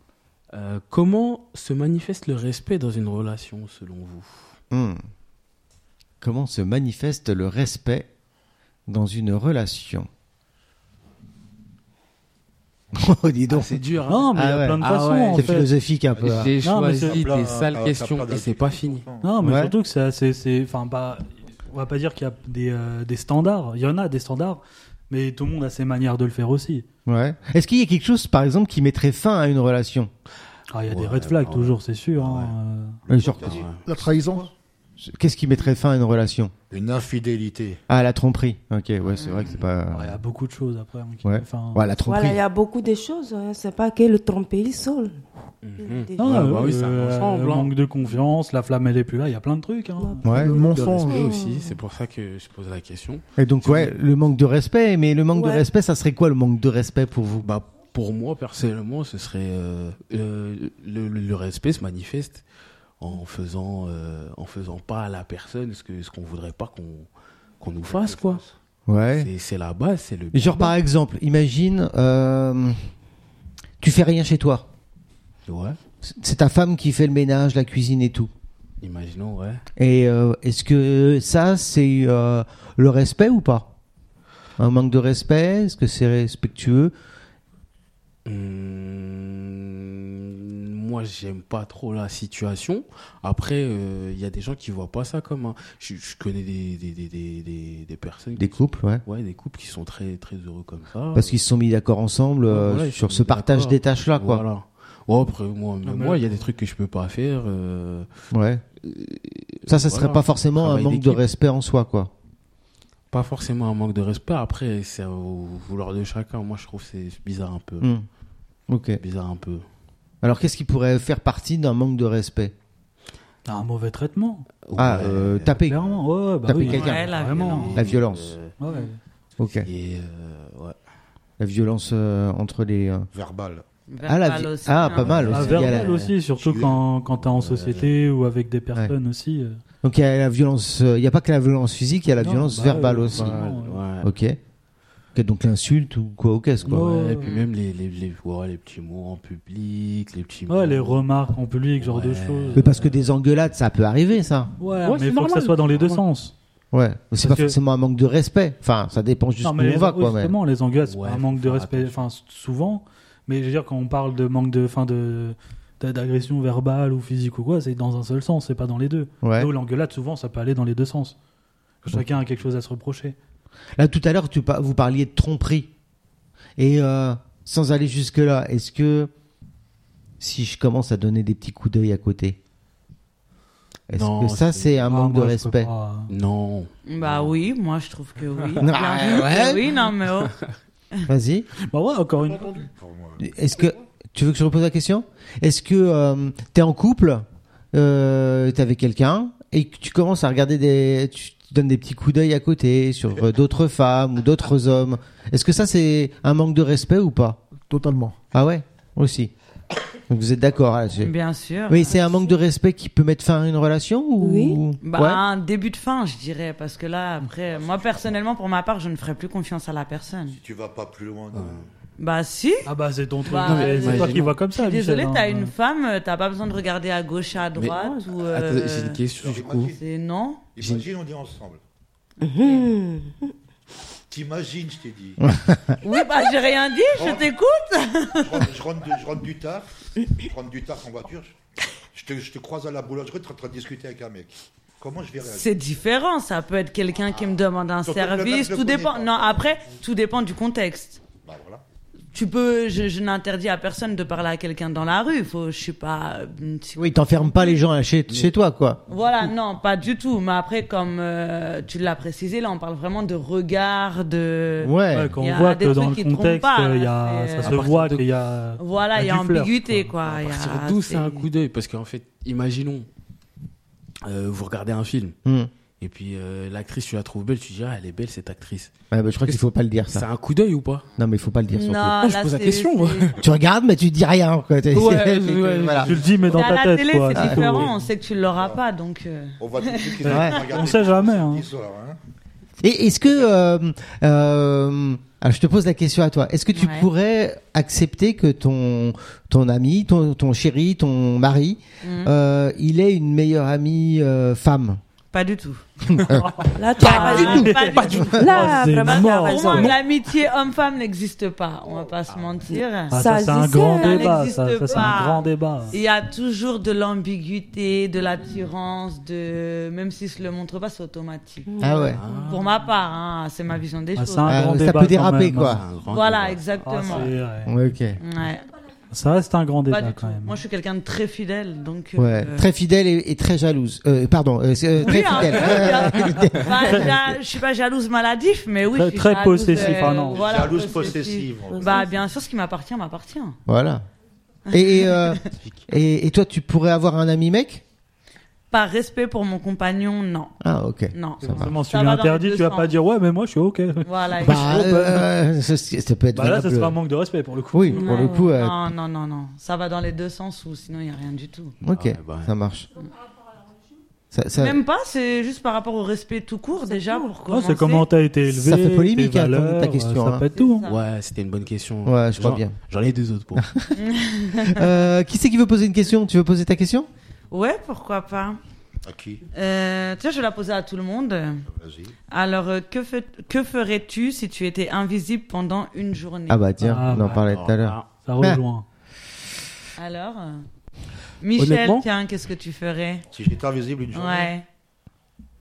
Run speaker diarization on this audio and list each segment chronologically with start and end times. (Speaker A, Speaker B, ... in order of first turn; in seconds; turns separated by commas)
Speaker A: 0.5-4.6, Speaker B: 4.7-5.0, Speaker B: 6.2-8.1, Speaker B: 8.9-10.1, Speaker B: 12.9-13.8, Speaker A: 13.5-15.7, Speaker C: 14.1-15.7, Speaker B: 14.3-16.5, Speaker A: 16.2-19.0, Speaker C: 16.6-17.2, Speaker D: 17.0-19.2, Speaker C: 19.2-26.9, Speaker B: 19.4-19.7, Speaker B: 27.1-30.1, Speaker C: 30.7-33.0, Speaker A: 30.9-32.5, Speaker D: 33.1-34.5, Speaker B: 33.1-33.6, Speaker A: 33.4-33.9, Speaker E: 33.8-34.5, Speaker B: 35.0-36.5, Speaker D: 36.7-37.8, Speaker B: 37.9-40.2, Speaker A: 39.0-39.7, Speaker F: 39.2-39.6, Speaker C: 39.9-41.8, Speaker B: 41.2-42.4, Speaker G: 42.0-45.2, Speaker A: 45.6-47.7, Speaker G: 45.8-46.7, Speaker C: 46.2-50.3, Speaker G: 50.0-51.8, Speaker B: 50.2-50.6, Speaker E: 50.3-51.3, Speaker A: 50.6-54.0, Speaker B: 53.4-57.5, Speaker G: 55.3-55.7, Speaker A: 57.4-62.4, Speaker A: 63.0-67.1, Speaker A: 67.6-68.4, Speaker D: 67.9-68.5, Speaker B: 68.9-69.3, Speaker A: 69.1-70.8, Speaker B: 70.3-72.8, Speaker B: 73.8-74.7, Speaker A: 75.5-75.8, Speaker B: 76.0-78.3, Speaker A: 78.8-79.6, Speaker B: 79.8-83.7, Speaker B: 84.6-86.9, Speaker A: 88.2-101.4, Speaker B: 98.3-99.0, Speaker B: 101.1-104.4, Speaker A: 102.5-108.1, Speaker C: 105.8-106.5, Speaker B: 108.3-108.6, Speaker A: 108.8-111.2, Speaker B: 109.7-112.1, Speaker A: 113.1-117.9, Speaker B: 118.7-119.0, Speaker A: 119.0-119.6, Speaker B: 120.2-122.5, Speaker C: 123.5-124.5, Speaker A: 124.6-125.8, Speaker B: 124.8-125.8, Speaker C: 125.7-127.7, Speaker B: 126.4-127.0, Speaker A: 126.6-128.6, Speaker F: 126.6-127.8, Speaker B: 127.7-128.4, Speaker C: 128.6-129.0, Speaker F: 128.6-128.9, Speaker B: 129.4-129.7, Speaker A: 129.6-130.8, Speaker B: 131.4-133.1, Speaker D: 133.1-133.7, Speaker F: 133.9-135.4, Speaker B: 134.0-136.0, Speaker A: 134.8-137.9, Speaker C: 135.3-139.6, Speaker B: 139.8-143.4, Speaker C: 142.2-143.8, Speaker A: 143.1-144.1, Speaker B: 144.0-144.4, Speaker B: 145.1-147.0, Speaker A: 146.7-151.1, Speaker C: 146.7-147.3, Speaker C: 150.5-152.8, Speaker A: 151.8-152.9, Speaker B: 152.5-154.5, Speaker C: 154.6-156.3, Speaker A: 154.8-156.0, Speaker B: 156.7-160.3, Speaker C: 157.2-157.6, Speaker C: 159.4-171.2, Speaker A: 160.8-162.0, Speaker B: 169.2-169.5, Speaker C: 171.8-173.2, Speaker B: 173.8-175.7, Speaker B: 176.6-179.1, Speaker B: 180.2-182.4, Speaker B: 183.9-185.7, Speaker A: 183.9-184.9, Speaker C: 184.8-186.1, Speaker A: 186.1-187.3, Speaker F: 186.8-190.3, Speaker B: 188.6-189.6, Speaker B: 191.1-191.5, Speaker C: 191.7-192.7, Speaker D: 192.7-193.2, Speaker B: 193.2-207.4, Speaker E: 207.7-208.2, Speaker B: 208.3-209.3, Speaker B: 210.1-211.1, Speaker F: 210.9-212.3, Speaker B: 211.7-215.2, Speaker G: 214.2-214.6, Speaker F: 214.8-220.4, Speaker D: 217.4-218.2, Speaker D: 220.3-221.7, Speaker A: 221.3-221.7, Speaker F: 222.0-222.7, Speaker C: 222.7-225.5, Speaker F: 223.2-229.0, Speaker A: 223.4-224.4, Speaker A: 227.5-229.7, Speaker D: 229.2-229.8, Speaker F: 229.7-230.5, Speaker D: 230.5-231.6, Speaker G: 232.2-233.3, Speaker F: 232.3-232.7, Speaker D: 234.1-235.2, Speaker B: 235.2-235.8, Speaker F: 235.8-238.5, Speaker D: 236.9-237.3, Speaker D: 238.2-241.3, Speaker D: 241.9-245.5, Speaker F: 245.2-251.0, Speaker D: 247.8-249.4, Speaker D: 251.2-251.6, Speaker F: 252.1-257.6, Speaker B: 256.8-258.8, Speaker A: 258.1-258.3, Speaker F: 258.9-267.7, Speaker B: 264.6-265.1, Speaker C: 264.9-269.9, Speaker A: 267.4-268.0, Speaker F: 268.6-271.3, Speaker A: 270.0-272.9, Speaker A: 274.0-275.1, Speaker B: 275.2-275.5, Speaker A: 275.8-278.7, Speaker B: 278.9-280.1, Speaker A: 279.2-280.9, Speaker B: 281.0-282.1, Speaker F: 281.5-283.2, Speaker A: 282.0-283.2, Speaker B: 283.2-285.9, Speaker A: 284.7-286.1, Speaker C: 285.8-287.7, Speaker F: 286.2-290.6, Speaker B: 287.1-287.6, Speaker D: 288.3-288.6, Speaker D: 289.4-292.0, Speaker C: 290.0-291.4, Speaker B: 290.1-290.4, Speaker B: 292.6-304.8, Speaker F: 296.5-296.9, Speaker F: 301.8-302.1, Speaker F: 305.1-305.6, Speaker B: 305.9-306.3, Speaker C: 306.1-309.8, Speaker G: 306.6-309.8, Speaker F: 306.8-321.5, Speaker A: 312.1-312.5, Speaker G: 312.5-314.3, Speaker C: 312.9-315.8, Speaker G: 321.5-322.5, Speaker B: 321.6-322.0, Speaker A: 321.9-322.6, Speaker F: 322.2-324.5, Speaker C: 323.9-325.6, Speaker B: 324.2-325.6, Speaker A: 325.4-327.1, Speaker F: 325.8-327.1, Speaker C: 326.7-327.5, Speaker B: 327.4-328.0, Speaker F: 328.0-328.5, Speaker C: 328.9-330.4, Speaker F: 329.7-332.5, Speaker B: 331.9-337.2, Speaker F: 334.8-343.4, Speaker C: 334.9-336.9, Speaker C: 338.7-340.3, Speaker D: 339.6-341.8, Speaker G: 340.5-342.1, Speaker B: 343.4-343.8, Speaker F: 344.5-345.3, Speaker B: 344.5-347.6, Speaker F: 348.5-350.4, Speaker B: 350.4-351.5, Speaker F: 350.9-352.7, Speaker C: 351.2-355.1, Speaker F: 353.8-354.7, Speaker B: 354.2-356.8, Speaker C: 356.1-357.9, Speaker B: 357.5-358.7, Speaker F: 357.7-361.6, Speaker G: 357.8-358.3, Speaker B: 361.6-362.7, Speaker A: 361.6-362.3, Speaker B: 364.1-364.6, Speaker F: 364.4-367.9, Speaker G: 366.6-367.1, Speaker C: 367.3-370.6, Speaker B: 368.3-370.2, Speaker F: 370.3-370.8, Speaker A: 370.6-373.5, Speaker B: 371.8-372.5, Speaker B: 373.4-373.7, Speaker F: 373.7-374.8, Speaker B: 374.4-376.9, Speaker F: 377.3-378.4, Speaker D: 378.8-379.2, Speaker F: 379.3-381.5, Speaker D: 381.5-381.9, Speaker F: 382.1-386.5, Speaker B: 386.3-388.4, Speaker C: 386.6-387.2, Speaker A: 386.9-387.9, Speaker C: 388.0-388.6, Speaker F: 389.8-390.4, Speaker F: 391.2-393.1, Speaker A: 391.4-391.9, Speaker D: 393.1-394.3, Speaker F: 393.9-394.4